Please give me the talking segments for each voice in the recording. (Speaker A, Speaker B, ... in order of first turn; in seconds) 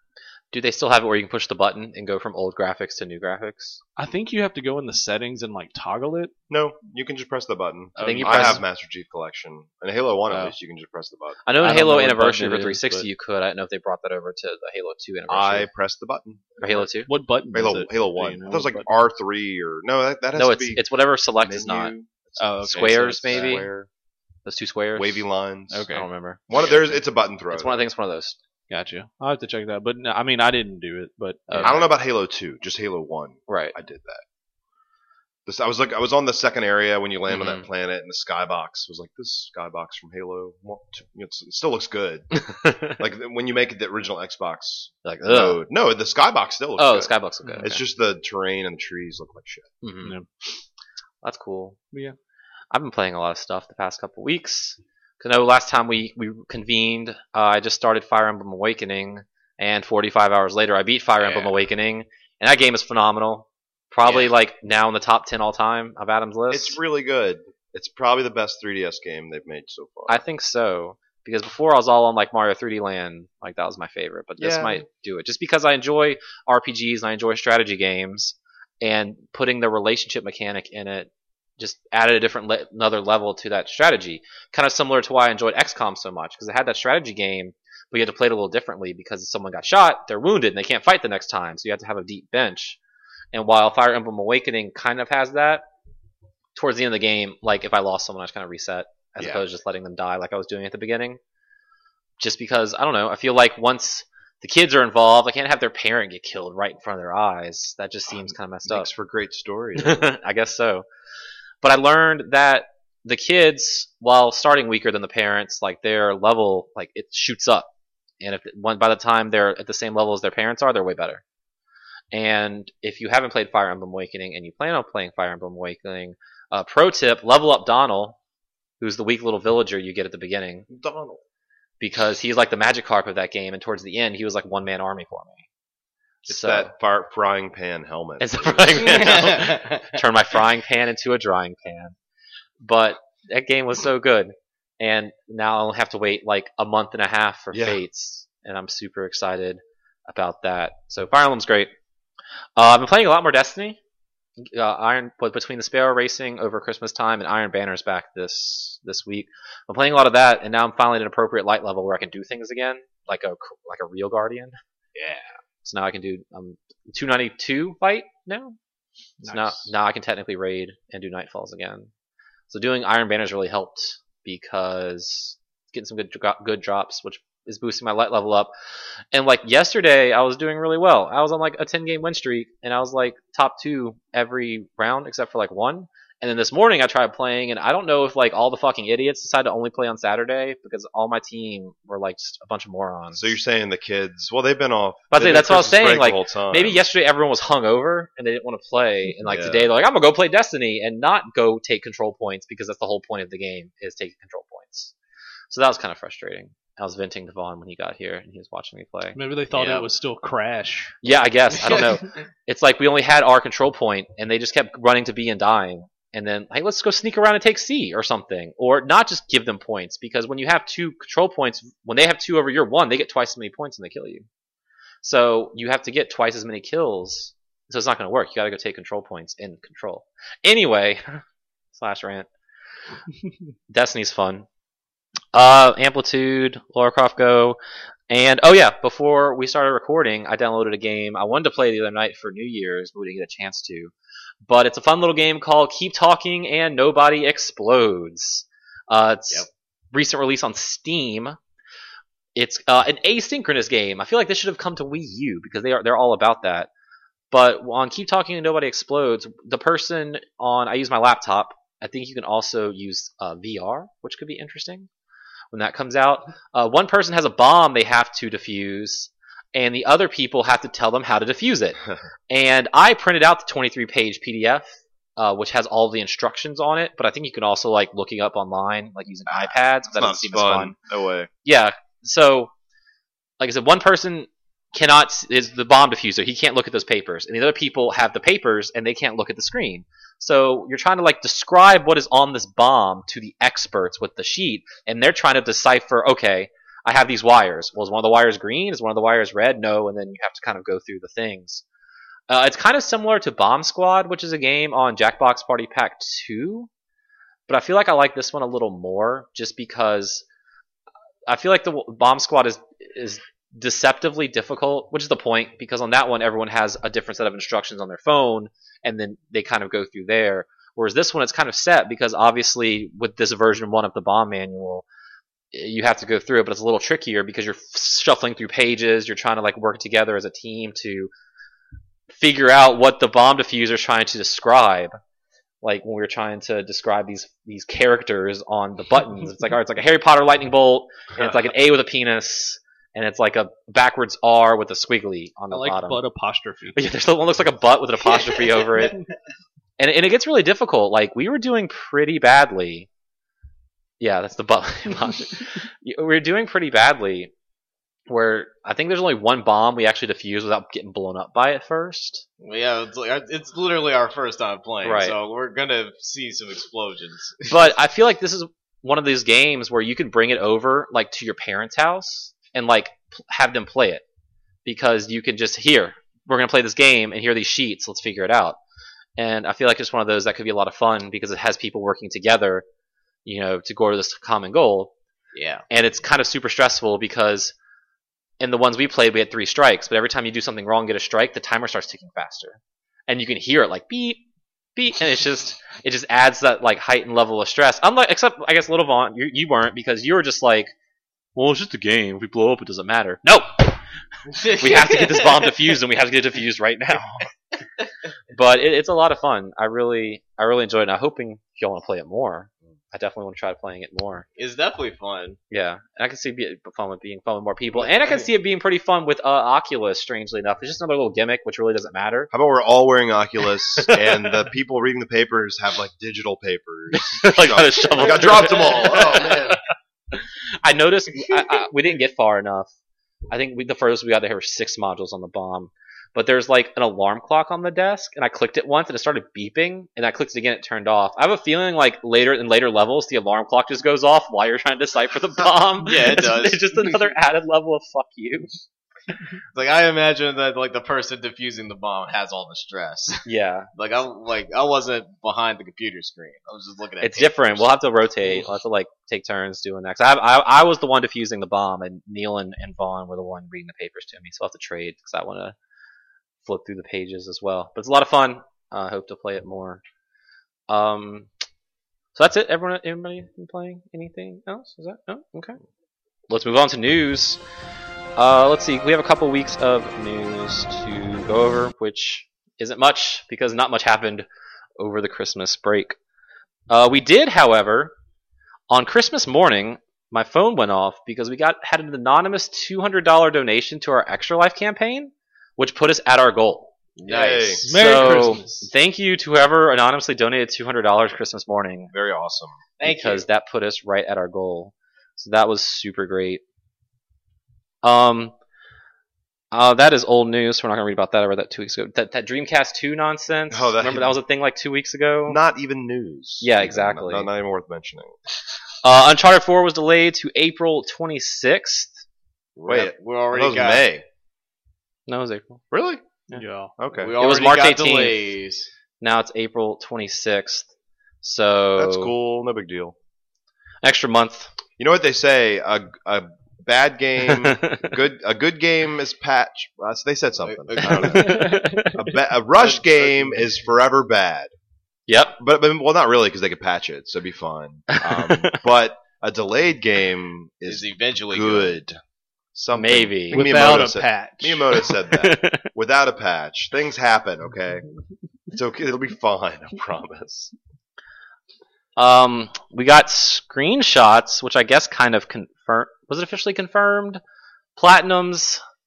Speaker A: 0.5-3.8, 8.0-8.6, 11.4-15.7, 16.6-17.1, 20.3-21.9, 22.6-23.7, 24.4-25.2, 25.9-26.9, 27.5-28.4, 31.5-31.9, 33.5-33.7, 37.3-37.6, 42.3-43.0, 45.0-45.6, 46.8-47.8, 49.8-50.1, 51.2-51.8, 52.7-66.8, 70.1-92.8, 93.3-95.7, 96.5-101.2, 102.2-108.9, 109.8-110.8, 111.6-117.7, 118.2-121.2, 122.1-128.2, 128.8-130.7, 131.8-135.4, 136.3-136.7, 138.2-141.9, 142.6-151.7, 152.6-153.8, 154.4-164.6, 165.6-168.6, 169.2-171.9, 172.5-178.5, 179.1-193.4, 195.1-204.9, 205.5-209.2, 211.0-224.2, 225.0-231.2, 231.7-232.3, 233.7-234.4, 235.3-237.6, 238.1-243.9, 244.4-251.4, 252.3-256.7, 257.3-264.9, 265.5-271.8, 272.3-280.7, 281.4-282.5, 283.4-301.6, 302.3-306.7, 307.5-310.2, 311.3-324.8, 325.5-331.1, 332.1-334.9, 335.6-346.0, 346.7-349.0, 349.8-352.9, 354.0-357.3, 358.1-362.2, 364.8-365.1, 367.5-374.0, 374.6-378.6, 379.2-382.6, 383.2-384.9, 385.7-387.5, 388.4-394.2, 394.8-400.7, 401.3-403.8, 404.4-407.3, 408.3-414.2, 415.5-422.3, 423.7-424.3, 426.9-429.6, 430.1-432.7, 433.3-448.5, 453.2-453.7, 457.0-465.5, 466.4-469.8, 470.7-471.3, 472.1-475.6, 476.3-477.4, 478.1-484.2, 484.8-486.0, 486.7-487.9, 488.7-496.7, 497.7-501.9, 502.8-506.4, 507.8-508.3, 509.5-515.4, 516.4-517.3, 518.8-522.0, 525.1-525.6, 527.2-528.2, 529.0-530.7, 531.2-532.1, 533.8-534.5, 537.2-538.0, 540.8-542.1, 545.1-545.4, 547.9-548.6, 552.7-553.5, 555.1-555.7, 562.0-567.2, 567.8-568.6
Speaker B: 4.0-6.3, 8.0-8.6, 11.6-13.1, 17.1-18.9, 22.4-23.5, 25.7-26.1, 28.7-31.8, 47.4-47.7, 169.2-169.7, 209.1-211.0, 345.5-346.8, 497.6-498.5, 526.3-526.7, 541.2-541.9, 553.3-554.9
Speaker C: 6.5-11.4, 15.3-16.9, 17.5-20.8, 21.4-23.9, 24.9-25.9, 26.5-27.8, 31.6-34.2, 35.5-42.3, 43.0-49.7, 61.2-61.5, 64.0-64.3, 66.5-70.2, 74.4-74.8, 99.2-99.4, 108.1-110.1, 130.7-131.2, 136.2-139.4, 147.5-147.8, 193.1-196.8, 199.2-199.7, 279.3-281.3, 422.3-429.6, 497.0-497.6, 501.9-502.6, 513.5-514.1, 515.3-518.2, 522.6-524.0, 525.7-526.0, 526.8-527.1, 531.8-532.9, 534.8-544.5, 545.4-552.0, 552.5-557.8, 558.5-560.5
Speaker D: 138.9-140.0, 209.6-209.8, 211.5-212.1, 348.1-349.0, 362.4-367.7, 385.3-385.6, 404.3-405.5, 414.4-415.4, 417.8-418.3, 428.1-429.6, 445.8-447.0, 449.5-453.2, 453.7-458.4, 497.0-498.6, 502.8-503.2, 522.5-523.8, 527.0-528.7, 540.4-541.4, 542.6-543.5, 550.6-551.8